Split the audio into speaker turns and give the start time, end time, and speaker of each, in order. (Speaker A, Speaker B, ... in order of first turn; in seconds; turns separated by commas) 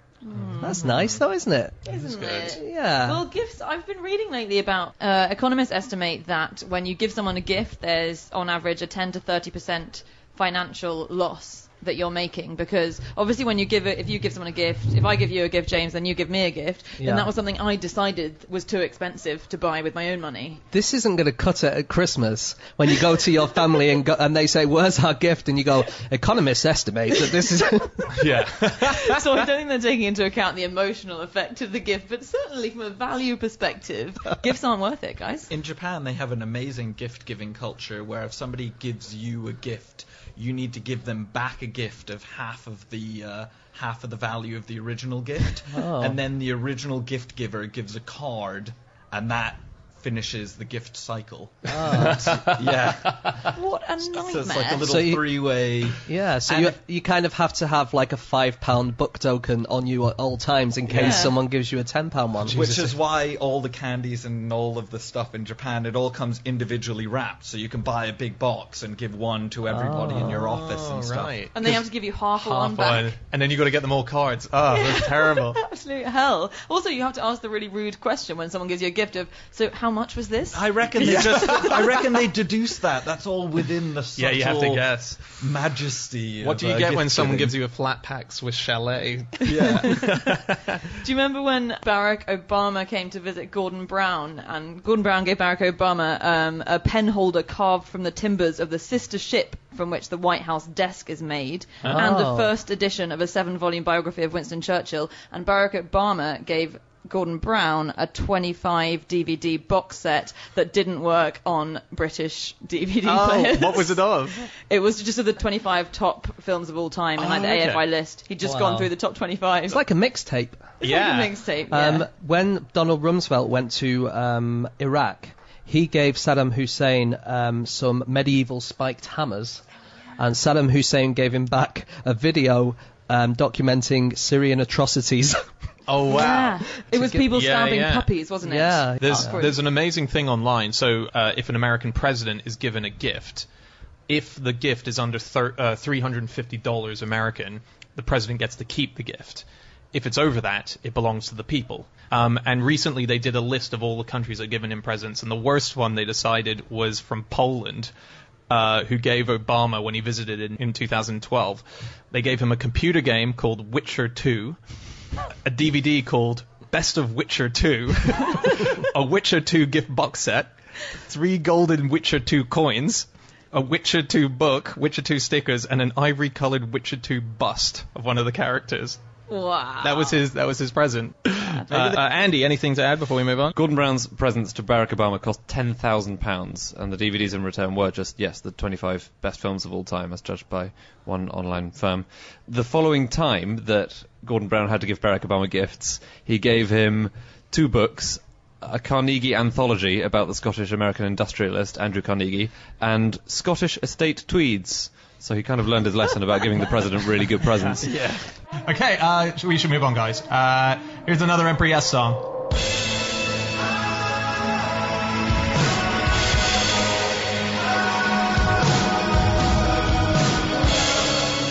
Speaker A: 0.2-0.9, Speaker B: 0.6-3.2, Speaker C: 0.7-1.2, Speaker A: 1.9-20.6, Speaker C: 1.9-2.6, Speaker B: 17.0-17.3, Speaker B: 20.7-28.2, Speaker C: 28.1-29.2, Speaker A: 28.4-35.5, Speaker D: 35.5-53.5, Speaker B: 45.7-46.2, Speaker B: 51.7-52.5, Speaker C: 52.0-53.1, Speaker A: 53.4-54.9, Speaker D: 54.1-56.8, Speaker B: 54.8-63.0, Speaker D: 60.9-61.3, Speaker A: 61.0-61.4, Speaker D: 62.4-71.3, Speaker C: 62.5-62.8, Speaker B: 69.7-70.4, Speaker C: 70.2-71.7, Speaker A: 71.5-73.1, Speaker C: 72.4-75.6, Speaker A: 74.7-82.2, Speaker D: 80.5-87.5, Speaker C: 81.0-81.8, Speaker C: 84.2-85.2, Speaker C: 86.4-90.5, Speaker D: 89.4-90.4, Speaker A: 89.6-90.2, Speaker A: 91.0-119.8, Speaker B: 101.8-102.5, Speaker C: 113.0-114.4, Speaker C: 117.2-117.8, Speaker B: 118.4-118.9, Speaker B: 119.7-120.7, Speaker A: 120.8-122.1, Speaker C: 120.8-121.4, Speaker B: 121.7-129.6, Speaker B: 130.2-135.4, Speaker C: 135.9-138.1, Speaker A: 136.1-139.6, Speaker B: 138.4-139.3, Speaker C: 139.0-143.5, Speaker C: 144.1-157.9, Speaker C: 158.5-164.6, Speaker C: 165.4-179.0, Speaker A: 179.3-180.2, Speaker C: 179.8-183.5, Speaker A: 181.4-182.0, Speaker E: 183.5-208.0, Speaker C: 208.6-212.3